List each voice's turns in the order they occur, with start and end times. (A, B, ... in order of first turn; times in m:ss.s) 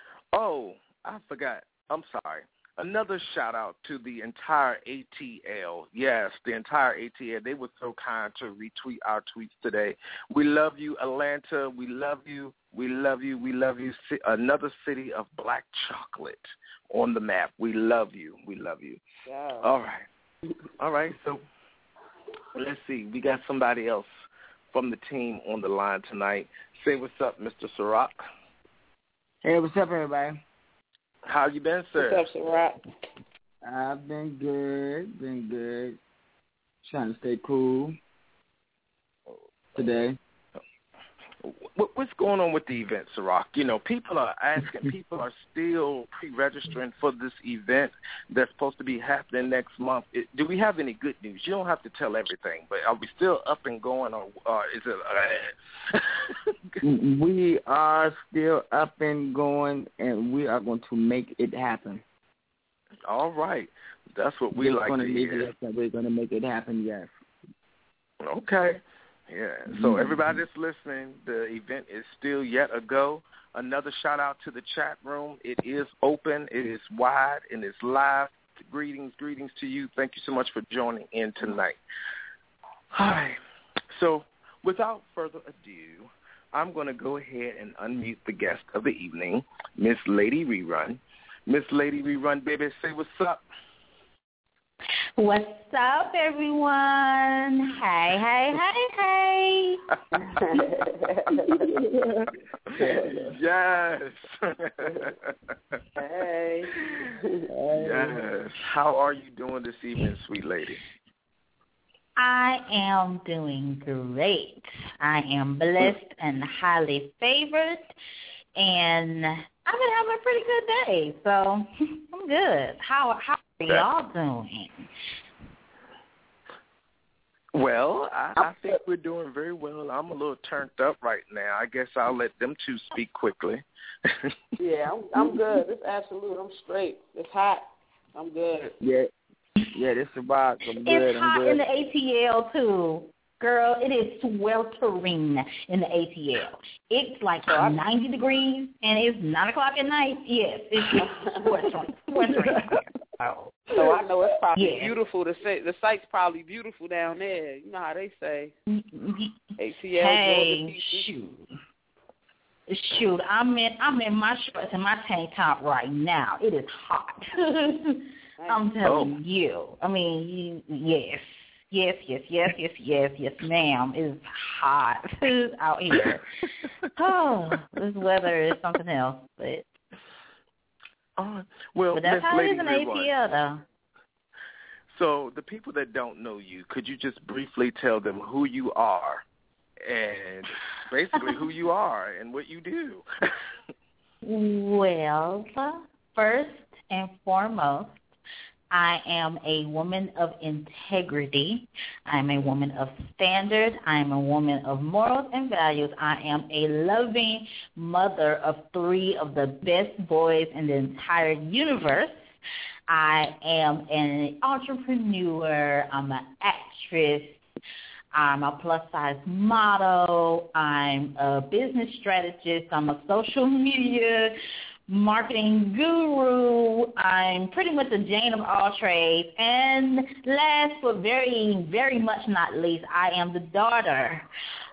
0:00.3-0:19.0 A
0:19.2-0:19.7 B
0:19.6-0:20.0 A
0:20.8-0:21.4 A
0:22.6-0:24.1 A
0:24.7-0:28.2 A
0:29.4-0:30.4 C
0:31.3-0:32.2 A
0:32.0-0:32.8 B
0:33.6-0:36.0 C
0:36.8-0:38.0 C
0:39.8-0:40.2 C
0:41.4-0:55.5 A
0:56.8-1:02.0 C
1:03.1-1:05.5 A
1:04.5-1:07.2 C
1:08.2-1:21.8 A
1:09.7-1:10.4 C
1:22.9-1:23.4 A
1:23.9-1:33.4 A
1:35.2-1:39.8 D
1:40.2-1:41.7 B
1:42.8-1:43.3 C
1:42.8-1:45.1 A
1:46.0-1:46.7 B
1:47.5-1:48.2 C
1:47.7-1:50.8 A
1:52.2-1:57.9 D
1:58.6-2:04.9 D
2:07.5-2:14.3 A
2:14.6-2:18.7 B
2:18.8-2:19.1 C
2:19.7-2:21.6 C
2:20.8-2:33.7 D
2:30.9-2:31.7 B
2:33.7-2:38.5 B
2:34.6-2:35.0 D
2:38.7-2:39.4 D
2:39.6-2:41.1 B
2:40.0-2:41.5 D
2:42.7-2:56.3 D
2:48.4-2:48.6 B
2:48.8-2:49.1 A
2:57.0-2:59.6 D
3:01.2-3:03.1 A
3:02.0-3:03.6 D
3:04.9-3:09.2 A
3:09.9-3:13.0 A
3:14.2-3:18.0 D
3:18.7-3:32.2 D
3:32.9-3:37.4 D
3:38.1-3:44.4 D
3:44.9-3:54.2 D